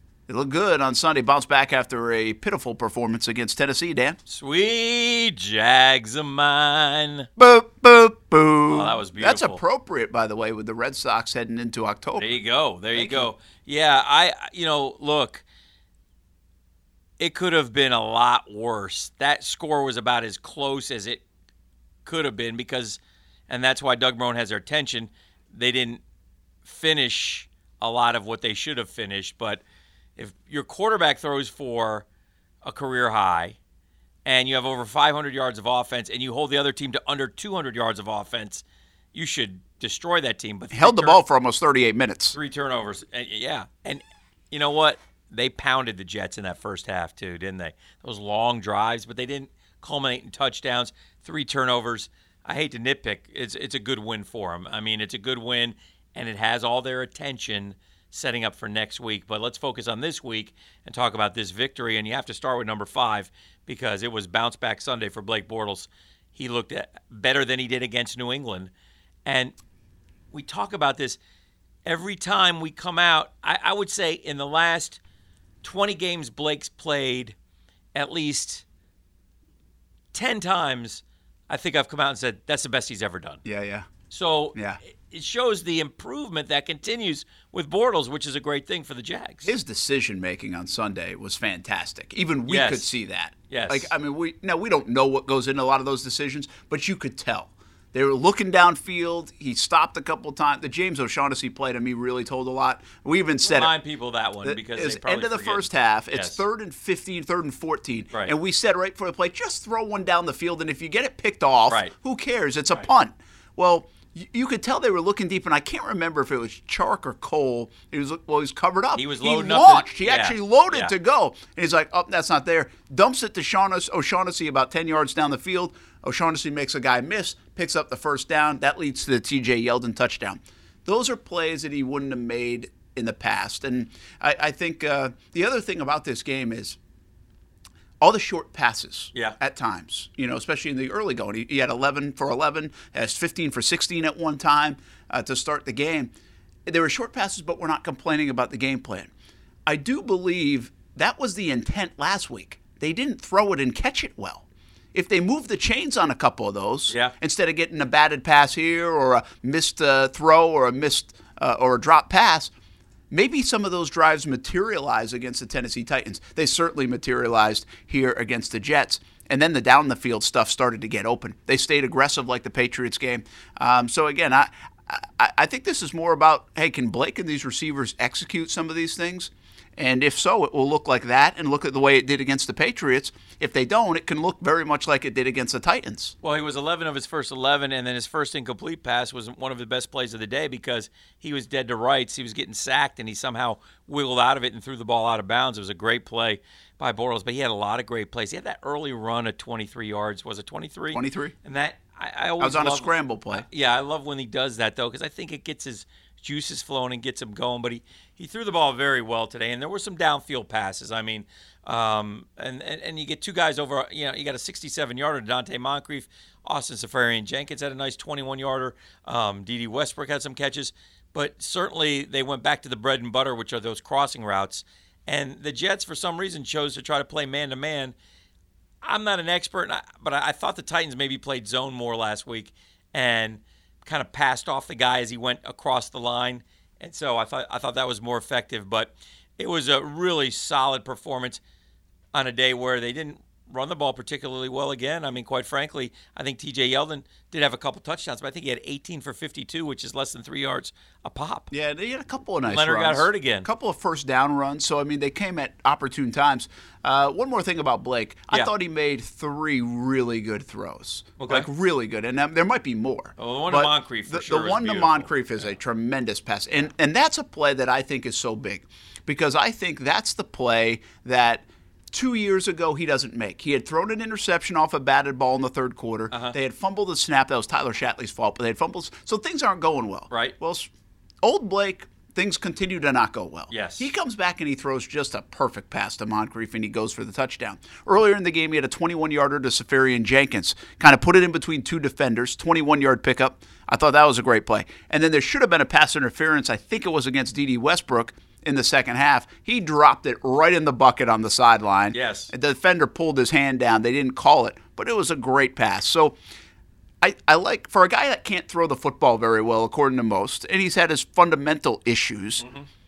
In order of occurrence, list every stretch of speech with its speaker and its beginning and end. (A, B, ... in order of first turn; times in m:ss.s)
0:00.3-0:04.2 A
0:04.3-0:07.3 B
0:07.4-0:12.3 A
0:08.7-0:09.6 B
0:12.2-0:15.4 B
0:12.9-0:13.3 A
0:17.2-0:21.2 B
0:22.0-0:26.0 B
0:26.6-0:29.6 B
0:30.2-0:32.0 B
0:32.6-0:33.6 B
0:34.2-0:41.2 B
0:40.7-0:42.4 A
0:42.3-1:08.7 B
1:09.2-1:09.5 B
1:10.3-1:11.2 B
1:11.8-1:15.0 B
1:15.6-1:17.3 B
1:17.9-1:18.6 B
1:20.1-1:23.4 B
1:23.4-1:23.9 A
1:24.1-1:29.5 B
1:29.4-1:43.7 A
1:32.5-1:33.0 B
1:33.5-1:33.9 B
1:43.4-1:46.4 B
1:44.4-2:16.8 A
1:51.7-1:51.9 B
1:58.9-2:00.9 B
2:18.0-2:26.1 A
2:26.6-2:29.1 A
2:29.6-2:42.5 A
2:36.9-2:37.1 B
2:43.1-3:06.1 A
3:06.2-3:47.9 B
3:20.9-3:21.3 A
3:22.4-3:23.4 A
3:48.8-4:01.4 B
4:02.1-4:11.5 B
4:11.5-4:40.7 A
4:12.5-4:13.5 B
4:21.2-4:21.5 B
4:23.2-4:25.1 B
4:36.1-4:36.4 B
4:40.1-4:40.3 B
4:41.2-5:06.2 A
4:43.5-4:43.9 B
5:01.9-5:02.3 B
5:07.0-5:12.4 A
5:12.4-5:12.7 B